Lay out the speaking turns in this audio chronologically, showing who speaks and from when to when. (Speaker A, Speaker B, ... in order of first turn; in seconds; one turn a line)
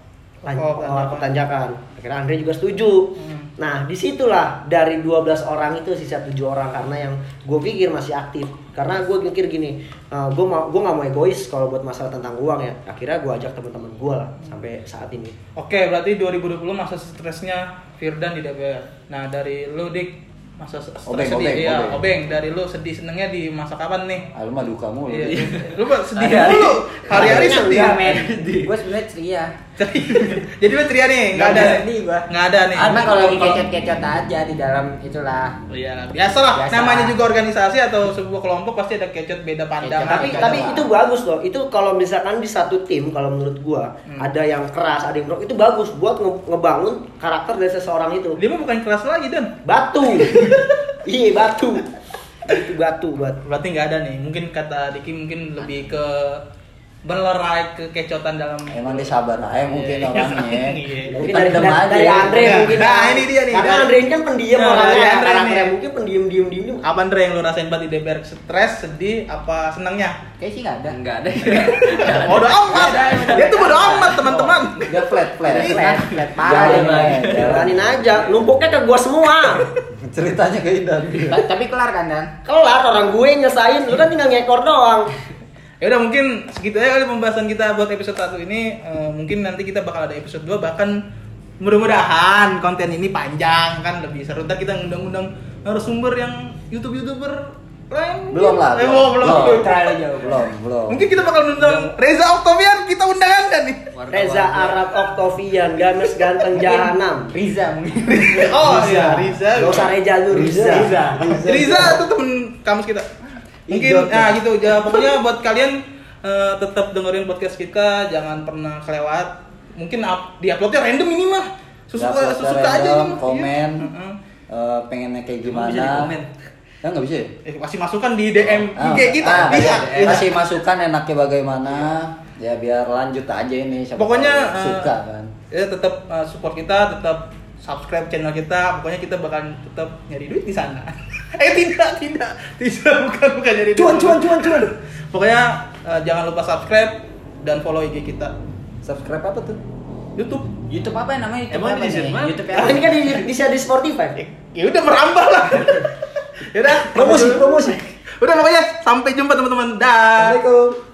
Speaker A: 0.4-15.3
Speaker B: 0.6-1.3
Speaker B: 3.2-3.5
Speaker B: 15.6-24.2
Speaker C: 21.1-22.1
Speaker C: 24.3-25.5
Speaker B: 25.1-28.1
Speaker D: 25.4-26.8
Speaker E: 26.2-29.5
Speaker A: 27.1-28.1
Speaker D: 28.1-28.7
Speaker B: 29.8-33.6
Speaker E: 31.3-35.5
Speaker B: 35.7-40.8
Speaker E: 36.5-37.2
Speaker E: 39.8-40.9
Speaker A: 40.1-48.4
Speaker B: 48.4-49.5
Speaker A: 49.6-51.9
Speaker B: 50.1-50.7
Speaker A: 52.5-53.4
Speaker B: 53.4-56.4
Speaker B: 57.0-59.1
Speaker C: 58.7-62.9
Speaker B: 59.7-61.2
Speaker A: 61.1-66.8
Speaker B: 62.3-63.9
Speaker B: 64.5-65.7
Speaker B: 66.8-70.2
Speaker E: 70.4-71.0
Speaker D: 70.9-74.4
Speaker B: 71.5-75.0
Speaker E: 71.5-74.6
Speaker C: 74.8-78.2
Speaker E: 75.4-77.5
Speaker B: 75.5-76.2
Speaker D: 76.4-77.6
Speaker A: 77.3-79.7
Speaker C: 80.0-81.5
Speaker E: 81.3-82.3
Speaker A: 82.4-85.1
Speaker B: 85.8-91.0
Speaker B: 91.6-99.7
Speaker C: 98.3-101.0
Speaker E: 99.2-100.4
Speaker B: 100.9-103.9
Speaker D: 101.5-101.9
Speaker D: 103.9-105.0
Speaker A: 104.1-107.3
Speaker E: 106.5-109.4
Speaker B: 108.1-109.9
Speaker A: 109.5-111.4
Speaker C: 110.3-112.0
Speaker E: 110.5-111.5
Speaker B: 111.4-113.1
Speaker C: 113.7-114.4
Speaker B: 113.7-124.2
Speaker C: 122.0-123.9
Speaker C: 124.5-126.1
Speaker D: 125.4-126.3
Speaker C: 126.8-127.3
Speaker B: 127.4-130.3
Speaker C: 128.7-135.3
Speaker D: 129.2-130.3
Speaker B: 134.0-134.9
Speaker B: 135.5-148.3
Speaker C: 143.7-144.7
Speaker C: 148.8-149.6
Speaker B: 150.2-150.5
Speaker E: 150.7-153.0
Speaker D: 151.5-153.2
Speaker A: 152.5-154.2
Speaker B: 154.2-155.9
Speaker B: 156.4-160.4
Speaker A: 156.9-157.4
Speaker C: 156.9-157.8
Speaker C: 160.2-160.8